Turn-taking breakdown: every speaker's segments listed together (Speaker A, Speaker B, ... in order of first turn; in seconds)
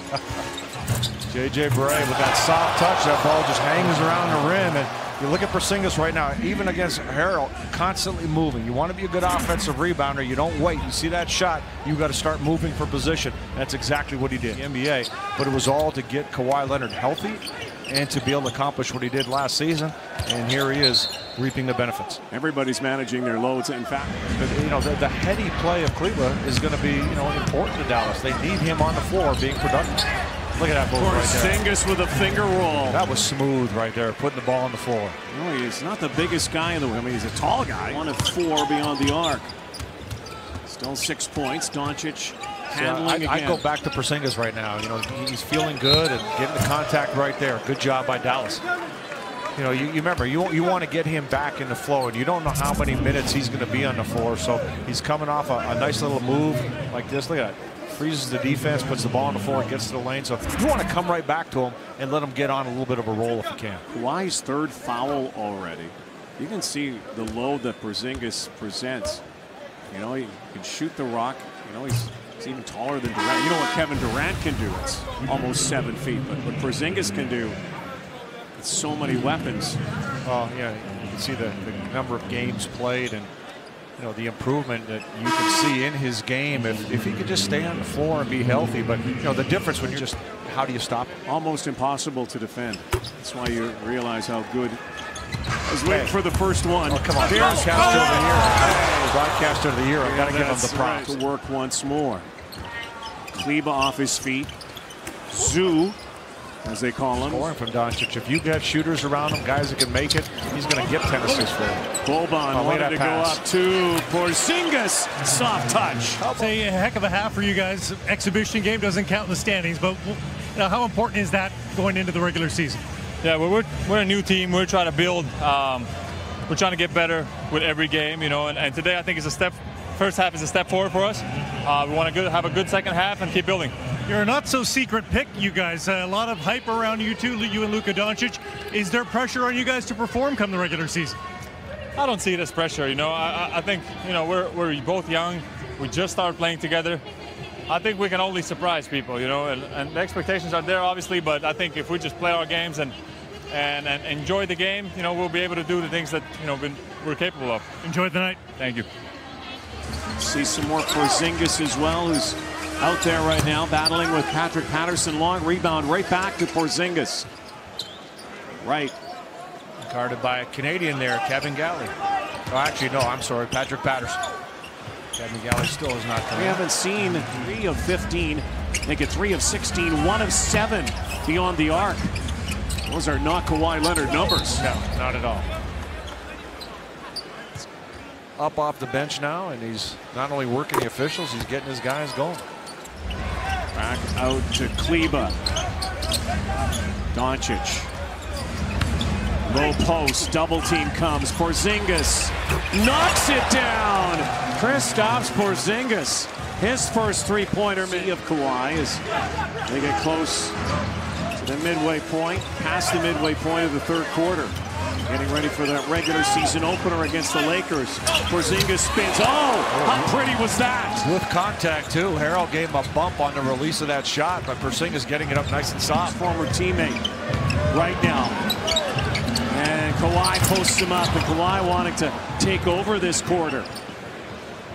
Speaker A: 1.3-22.2, 24.3-30.0, 30.6-31.6, 32.9-35.2, 42.7-48.6, 49.5-63.8, 80.2-83.3, 84.0-91.2, 95.8-96.1, 96.9-101.2, 107.2-111.8, 112.5-113.4, 116.2-116.6, 169.8-171.9, 172.5-174.2, 175.2-176.6, 184.6-185.5, 188.4-192.4, 219.7-220.1, 221.0-226.2
Speaker B: 22.3-24.3, 30.9-33.0, 35.3-39.5, 40.6-43.6, 63.9-69.2, 69.9-77.6, 78.5-79.8, 91.2-94.8, 95.7-99.2, 100.0-102.3, 103.3-104.5, 105.3-106.0, 106.6-107.5, 112.0-116.2, 160.2-167.3, 168.6-168.9, 176.3-182.1, 182.8-184.7, 193.7-195.3, 197.1-197.9, 199.4-209.0, 209.7-210.6, 211.3-221.1, 226.0-227.0, 227.7-228.4, 229.5-233.7
Speaker C: 116.3-122.8, 134.1-141.2, 157.8-158.5
Speaker D: 123.2-125.9, 126.5-133.7, 141.9-147.0, 147.7-152.9, 153.5-157.7, 158.5-158.8